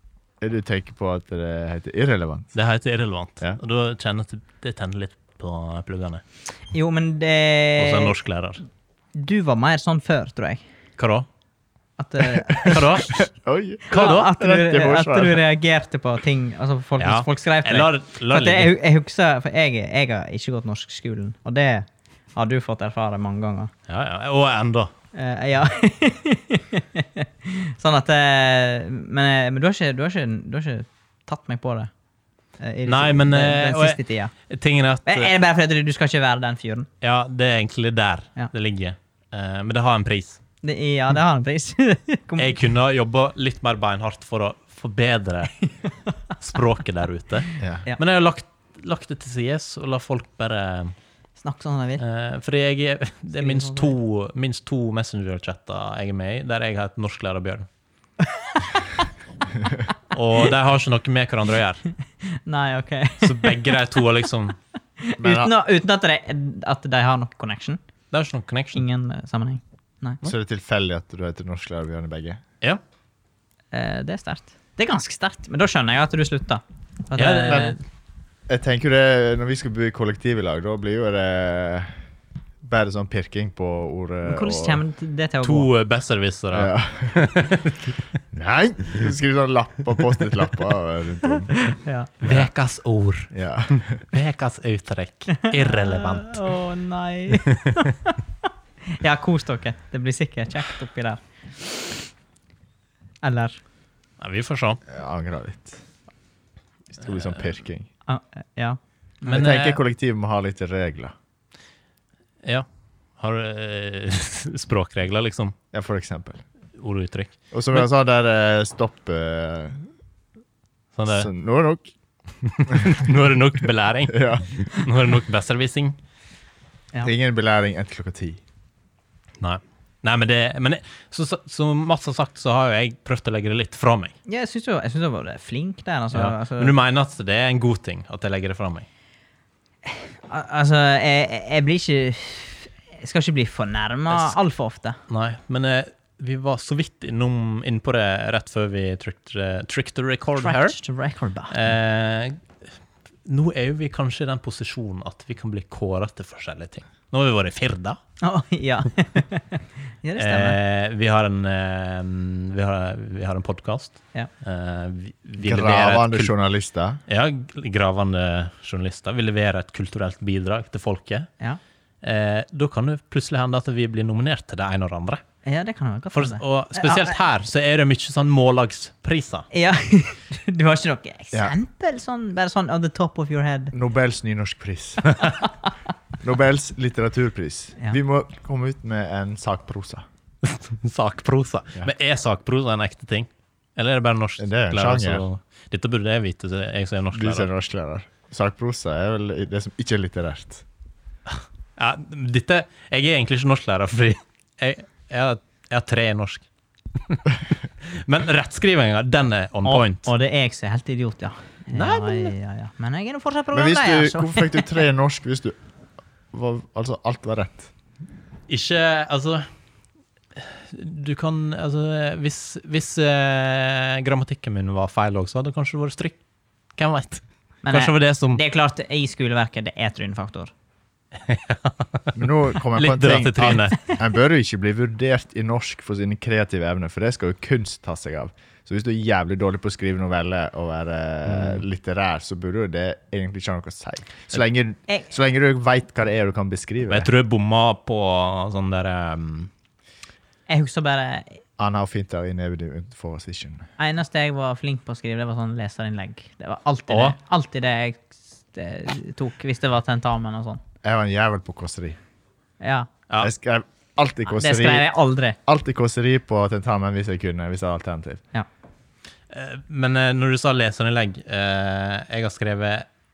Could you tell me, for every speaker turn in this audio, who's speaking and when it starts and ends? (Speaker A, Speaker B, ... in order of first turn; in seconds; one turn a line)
Speaker A: 0.4-2.5
Speaker B: 2.5-6.2
Speaker C: 6.7-8.2
Speaker B: 7.8-8.6
Speaker C: 9.2-10.6
Speaker B: 11.0-11.3
Speaker C: 12.0-13.0
Speaker A: 12.4-15.4
Speaker B: 12.7-13.2
Speaker C: 13.9-23.7
Speaker B: 13.9-14.3
Speaker B: 17.0-18.7
Speaker B: 23.9-24.9
Speaker C: 25.1-31.9
Speaker C: 32.6-34.3
Speaker B: 32.9-35.3
Speaker C: 35.1-36.9
Speaker B: 37.0-40.4
Speaker C: 40.6-42.6
Speaker B: 42.4-45.7
Speaker B: 46.4-50.9
Speaker A: 47.6-47.8
Speaker C: 51.4-52.0
Speaker B: 52.0-57.7
Speaker C: 53.3-53.9
Speaker B: 60.1-61.8
Speaker C: 62.2-63.8
Speaker B: 63.2-64.6
Speaker C: 65.0-67.8
Speaker A: 65.2-65.5
Speaker B: 68.1-68.8
Speaker C: 68.7-70.2
Speaker A: 70.2-72.4
Speaker C: 73.7-77.8
Speaker B: 77.2-77.8
Speaker A: 78.5-82.0
Speaker A: 82.6-84.8
Speaker C: 84.2-85.7
Speaker B: 85.4-88.0
Speaker A: 86.5-87.3
Speaker A: 88.3-91.5
Speaker C: 91.3-92.2
Speaker B: 92.2-96.5
Speaker A: 93.3-94.0
Speaker C: 95.4-101.9
Speaker B: 97.5-97.8
Speaker C: 103.2-103.6
Speaker B: 104.2-104.8
Speaker A: 104.9-105.8
Speaker A: 106.9-107.9
Speaker C: 108.1-108.8
Speaker B: 109.2-109.8
Speaker A: 109.2-111.2
Speaker B: 113.2-115.5
Speaker A: 115.7-116.4
Speaker B: 116.8-117.9
Speaker A: 117.5-119.9
Speaker B: 121.0-121.3
Speaker A: 121.1-121.9
Speaker B: 122.4-126.0
Speaker A: 124.1-124.6
Speaker A: 127.0-128.4
Speaker B: 129.4-134.1
Speaker C: 134.3-136.7
Speaker B: 136.1-138.9
Speaker C: 139.9-145.0
Speaker B: 145.1-150.8
Speaker C: 150.4-151.6
Speaker B: 151.5-152.4
Speaker B: 153.3-158.0
Speaker C: 158.2-160.6
Speaker B: 160.2-166.3
Speaker A: 165.4-167.0
Speaker B: 167.1-171.3
Speaker B: 172.0-175.2
Speaker C: 175.4-177.2
Speaker B: 176.1-179.5
Speaker C: 179.5-183.7
Speaker A: 183.7-185.2
Speaker A: 186.2-190.0
Speaker B: 190.4-197.5
Speaker A: 194.4-195.2
Speaker A: 197.1-200.7
Speaker B: 201.3-206.4
Speaker B: 207.1-210.1
Speaker C: 209.6-214.8
Speaker B: 211.7-212.3
Speaker A: 213.5-215.6
Speaker A: 216.3-217.7
Speaker B: 218.5-219.5
Speaker B: 220.4-226.2
Speaker B: 226.8-228.4
Speaker C: 227.7-230.5
Speaker B: 231.2-233.9
Speaker A: 232.2-247.1
Speaker B: 241.3-241.6
Speaker B: 246.9-249.5
Speaker C: 250.5-251.4
Speaker A: 251.6-253.7
Speaker C: 253.8-260.6
Speaker B: 256.9-257.2
Speaker A: 260.8-262.0
Speaker C: 262.6-262.9
Speaker A: 263.2-264.9
Speaker C: 264.3-265.4
Speaker A: 265.5-268.2
Speaker B: 269.3-272.9